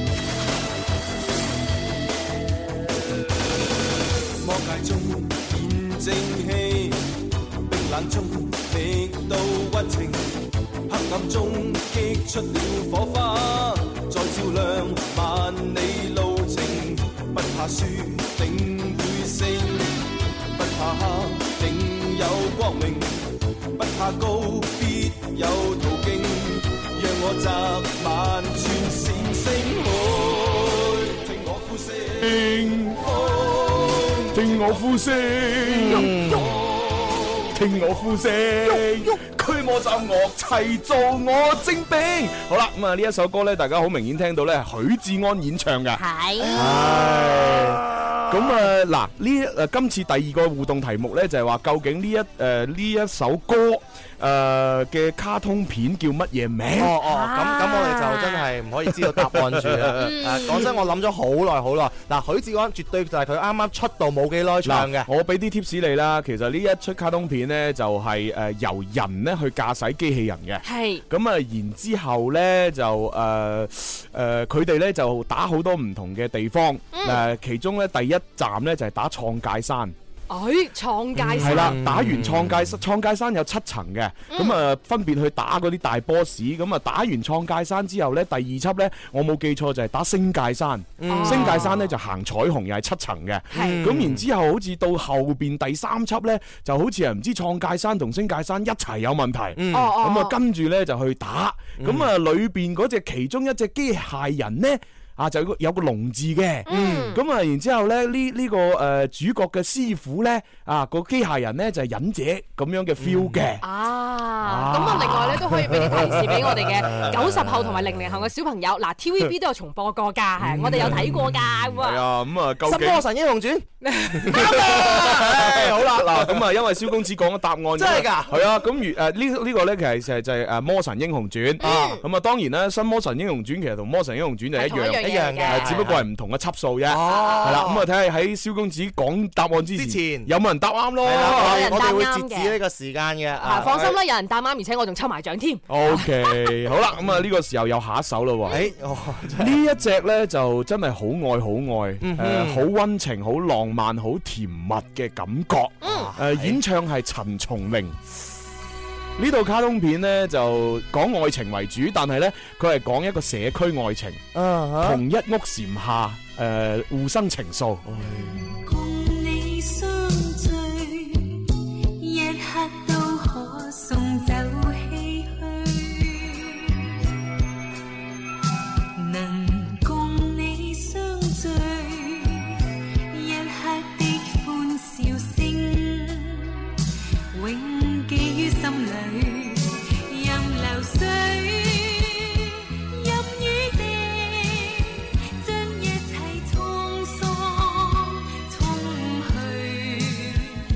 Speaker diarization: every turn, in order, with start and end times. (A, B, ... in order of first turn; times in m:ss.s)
0:04.4-0:07.1 A
0:07.6-0:10.4 A
0:10.9-0:20.0 A
0:20.5-0:34.8 A
0:32.2-0:33.0 B
0:34.3-0:36.4 B
0:35.7-0:36.4 C
0:36.1-0:37.5 A
0:37.5-0:46.0 B
0:46.4-0:48.6 C
0:46.5-0:57.0 B
0:56.8-1:05.1 C
0:57.0-0:58.5 D
0:59.3-1:00.6 B
1:00.0-1:00.8 D
1:04.6-1:19.9 B
1:10.6-1:11.0 D
1:16.9-1:17.2 D
1:20.3-1:21.8 D
1:21.2-1:22.8 C
1:21.4-1:53.6 B
1:24.3-1:24.6 D
1:31.0-1:31.8 C
1:31.1-1:31.8 D
1:33.5-1:33.9 D
1:33.5-1:34.2 C
1:39.6-1:40.0 C
1:39.7-1:40.4 D
1:41.8-1:42.1 C
1:46.7-1:47.2 D
1:46.7-1:47.1 C
1:53.0-1:53.4 C
1:53.6-2:02.0 D
1:54.4-1:56.4 B
1:55.7-1:57.9 C
2:00.5-2:01.2 C
2:00.6-2:01.0 B
2:01.7-2:03.0 B
2:02.6-2:06.4 C
2:03.8-2:04.9 D
2:04.3-2:21.8 B
2:07.7-2:08.4 C
2:11.6-2:12.0 D
2:11.6-2:12.0 C
2:14.5-2:15.9 D
2:15.0-2:16.0 C
2:16.8-2:17.8 C
2:17.0-2:17.6 D
2:19.7-2:20.3 C
2:21.0-2:24.0 C
2:21.1-2:22.5 D
2:23.4-2:26.7 D
2:25.7-2:28.6 B
2:28.5-2:29.6 C
2:29.4-2:38.0 B
2:32.0-2:32.7 C
2:35.8-2:36.1 D
2:35.8-2:36.6 C
2:39.2-2:44.2 B
2:44.3-2:45.0 C
2:44.8-2:48.3 B
2:48.5-2:51.2 E
2:52.0-2:56.5 E
2:59.0-3:02.2 E
3:03.1-3:06.4 E
3:07.3-3:09.6 E
3:10.1-3:14.8 E
3:15.4-3:20.5 E